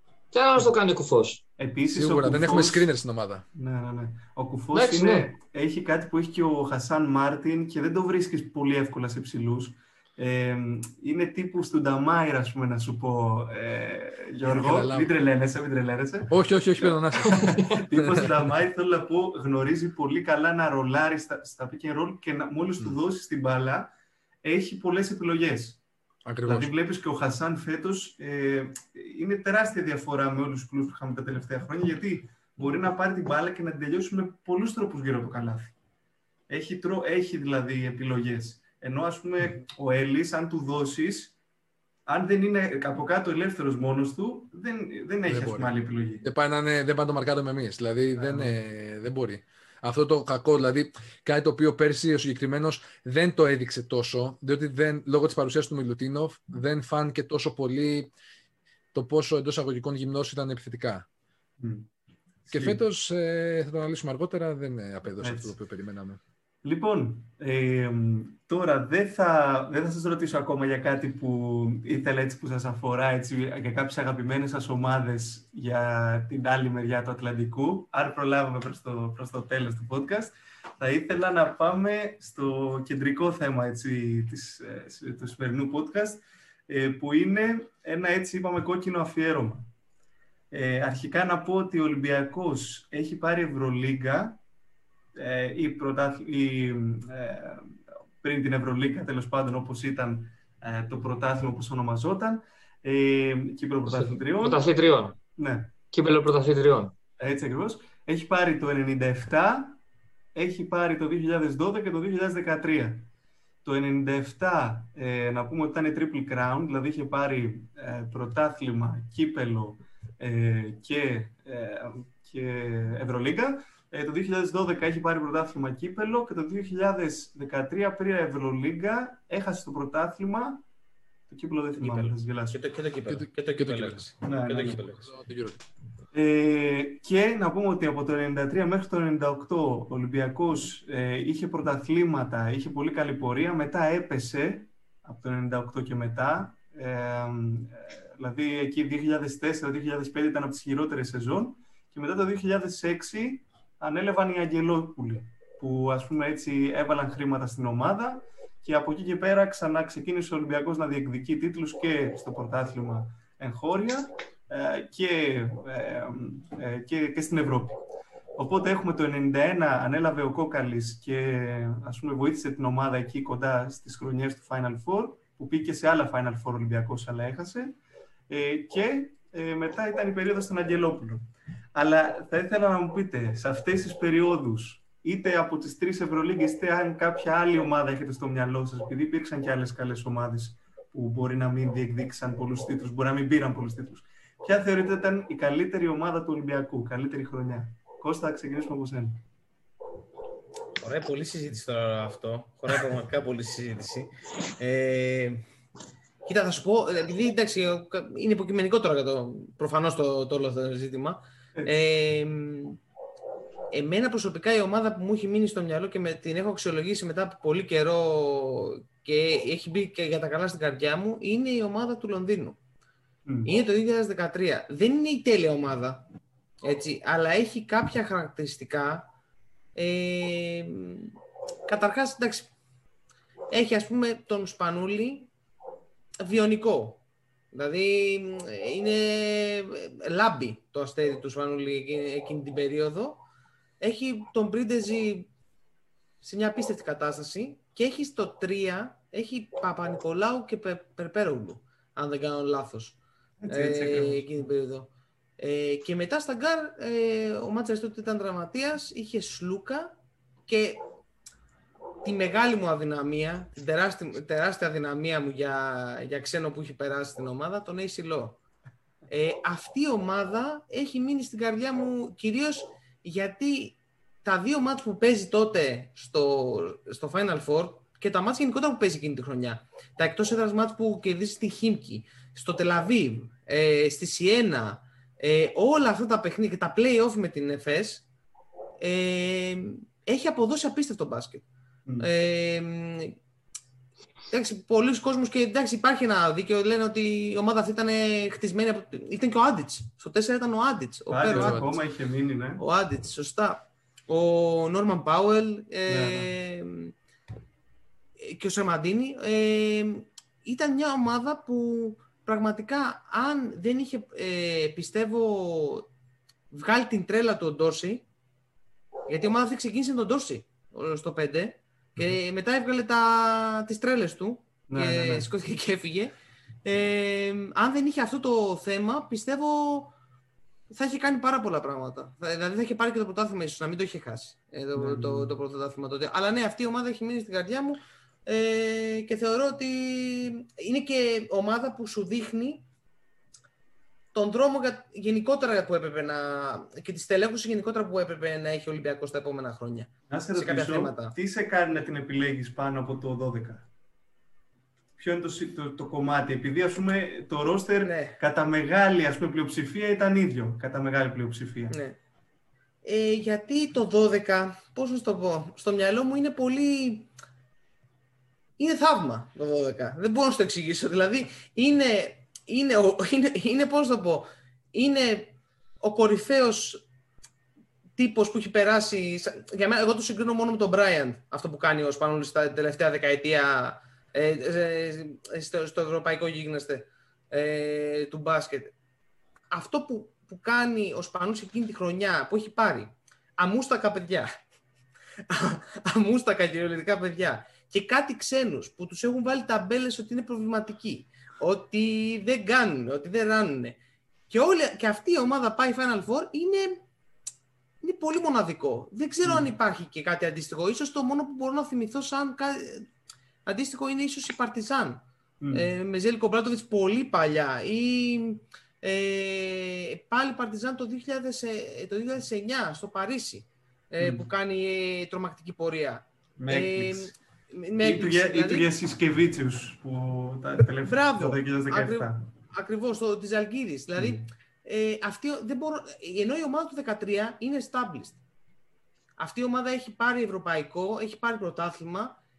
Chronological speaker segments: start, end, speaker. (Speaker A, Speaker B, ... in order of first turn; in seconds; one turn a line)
Speaker A: 0.3-1.4
Speaker B: 1.6-2.9
Speaker C: 1.9-3.4
Speaker B: 3.5-23.9
Speaker A: 4.7-5.3
Speaker C: 14.4-15.1
Speaker C: 16.3-18.5
Speaker B: 24.4-25.8
Speaker C: 26.3-26.7
Speaker B: 26.4-35.7
Speaker B: 36.5-41.3
Speaker B: 42.1-46.2
Speaker C: 45.2-45.7
Speaker C: 46.2-58.1
Speaker B: 48.2-48.5
Speaker C: 58.9-61.0
Speaker B: 61.6-61.9
Speaker B: 62.4-62.8
Speaker C: 62.5-66.2
Speaker B: 65.2-65.5
Speaker B: 66.6-89.7
Speaker B: 90.5-94.4
Speaker B: 95.1-104.6
Speaker A: 103.9-105.2
Speaker B: 105.4-105.7
Speaker A: 105.9-106.9
Speaker B: 107.2-109.8
Speaker B: 110.3-113.1
Speaker B: 113.6-130.6
Speaker B: 131.3-132.6
Speaker D: 131.8-135.1
Speaker C: 133.1-135.6
Speaker B: 134.2-134.8
Speaker B: 136.1-167.8
Speaker B: 168.3-177.8
Speaker B: 178.3-181.2
Speaker B: 181.7-199.2
Speaker D: 200.8-205.4
Speaker D: 206.2-212.8
Speaker D: 213.7-222.6
Speaker B: 223.2-223.5
Speaker D: 223.4-226.1
Speaker D: 226.6-229.1
Speaker D: 229.7-231.1
Speaker D: 231.7-232.5
Speaker D: 233.5-235.3
Speaker D: 236.2-243.2
Speaker D: 243.8-245.3
Speaker D: 246.2-253.0
Speaker B: 253.4-254.5
Speaker D: 253.5-259.9
Speaker D: 260.5-260.8
Speaker D: 262.0-268.4
Speaker D: 269.1-288.1
Speaker D: 288.8-291.4
Speaker D: 292.0-293.1
Speaker D: 294.3-301.7
Speaker B: 301.1-302.6
Speaker C: 301.3-301.8
Speaker D: 302.6-306.9
Speaker B: 305.9-306.3
Speaker D: 308.2-315.9
Speaker D: 316.5-318.0
Speaker D: 319.1-326.1
Speaker B: 324.7-325.3
Speaker D: 326.6-329.9
Speaker D: 330.7-342.6
Speaker B: 334.7-335.3
Speaker D: 344.1-351.1
Speaker B: 350.1-353.7
Speaker B: 355.0-361.7
Speaker D: 357.8-358.2
Speaker D: 361.7-362.0
Speaker D: 362.8-367.1
Speaker D: 368.6-376.8
Speaker D: 377.9-388.7
Speaker D: 389.5-394.3
Speaker D: 395.3-403.8
Speaker D: 404.3-406.8
Speaker D: 407.8-412.9
Speaker B: 409.2-409.5
Speaker D: 413.4-428.7
Speaker B: 415.4-415.7
Speaker B: 424.0-424.3
Speaker B: 426.4-427.1
Speaker B: 427.8-432.2
Speaker D: 430.9-438.2
Speaker B: 434.0-434.3
Speaker D: 439.2-442.2